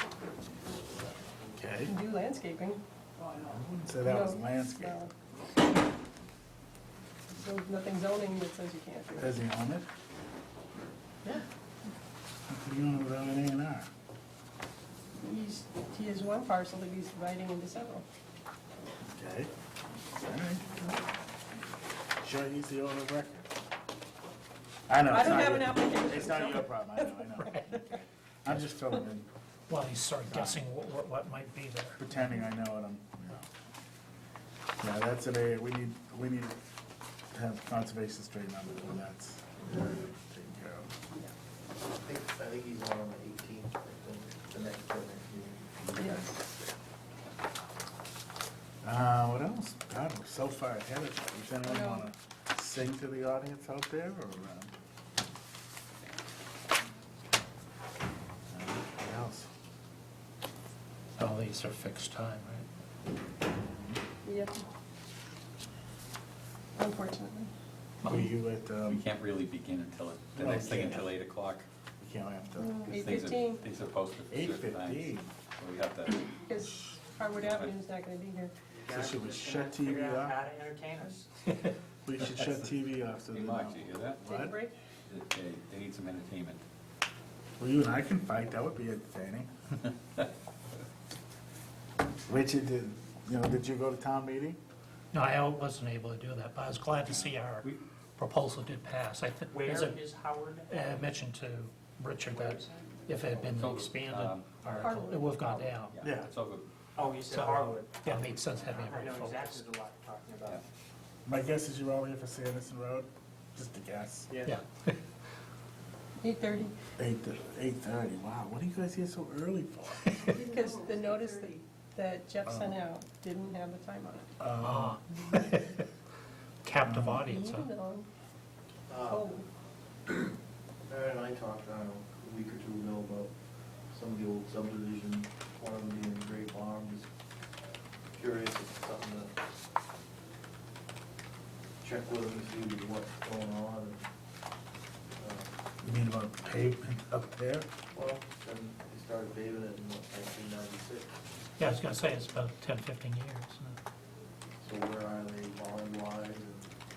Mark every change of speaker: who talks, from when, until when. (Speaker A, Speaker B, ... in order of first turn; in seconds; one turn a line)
Speaker A: 1.5-1.9
Speaker B: 1.8-2.8
Speaker A: 3.4-5.0
Speaker B: 4.0-5.1
Speaker B: 7.3-9.4
Speaker A: 9.1-9.9
Speaker A: 12.5-13.9
Speaker B: 15.2-18.0
Speaker A: 19.0-19.5
Speaker A: 20.2-20.6
Speaker A: 22.2-23.5
Speaker A: 24.9-29.3
Speaker B: 25.1-27.9
Speaker C: 27.4-27.7
Speaker C: 29.7-32.0
Speaker A: 30.3-30.7
Speaker A: 32.0-33.5
Speaker A: 34.8-36.6
Speaker A: 37.3-40.9
Speaker D: 42.0-46.1
Speaker B: 46.0-46.3
Speaker A: 48.8-54.7
Speaker B: 51.6-52.1
Speaker A: 58.5-59.5
Speaker C: 61.2-62.7
Speaker A: 63.7-64.0
Speaker B: 64.2-64.6
Speaker B: 66.8-67.5
Speaker C: 68.0-68.3
Speaker A: 68.0-69.0
Speaker E: 68.9-71.7
Speaker A: 70.3-71.1
Speaker A: 72.0-72.9
Speaker B: 72.6-73.6
Speaker E: 72.9-76.3
Speaker A: 74.3-75.3
Speaker B: 76.4-78.5
Speaker E: 77.4-77.7
Speaker F: 78.7-81.3
Speaker A: 78.9-80.4
Speaker A: 82.0-84.6
Speaker E: 83.3-84.2
Speaker B: 84.2-84.7
Speaker E: 85.1-86.6
Speaker A: 87.6-89.5
Speaker A: 92.3-94.6
Speaker C: 95.1-100.0
Speaker E: 97.1-97.8
Speaker F: 99.5-100.8
Speaker C: 100.7-106.0
Speaker F: 102.3-103.1
Speaker E: 103.3-106.7
Speaker B: 104.7-105.4
Speaker A: 106.0-106.3
Speaker F: 107.0-110.6
Speaker C: 108.0-109.7
Speaker A: 111.2-114.4
Speaker C: 114.4-115.0
Speaker B: 116.2-116.7
Speaker A: 117.0-120.3
Speaker B: 120.3-124.3
Speaker A: 122.5-122.8
Speaker A: 124.4-125.0
Speaker C: 124.6-125.8
Speaker C: 126.6-127.7
Speaker A: 126.8-127.2
Speaker B: 127.2-128.1
Speaker D: 128.9-129.4
Speaker B: 129.0-129.4
Speaker D: 130.9-133.3
Speaker D: 133.9-137.1
Speaker D: 138.1-139.3
Speaker D: 141.8-144.0
Speaker D: 145.2-145.5
Speaker A: 145.8-147.7
Speaker D: 147.9-151.1
Speaker C: 151.6-153.8
Speaker D: 154.6-156.7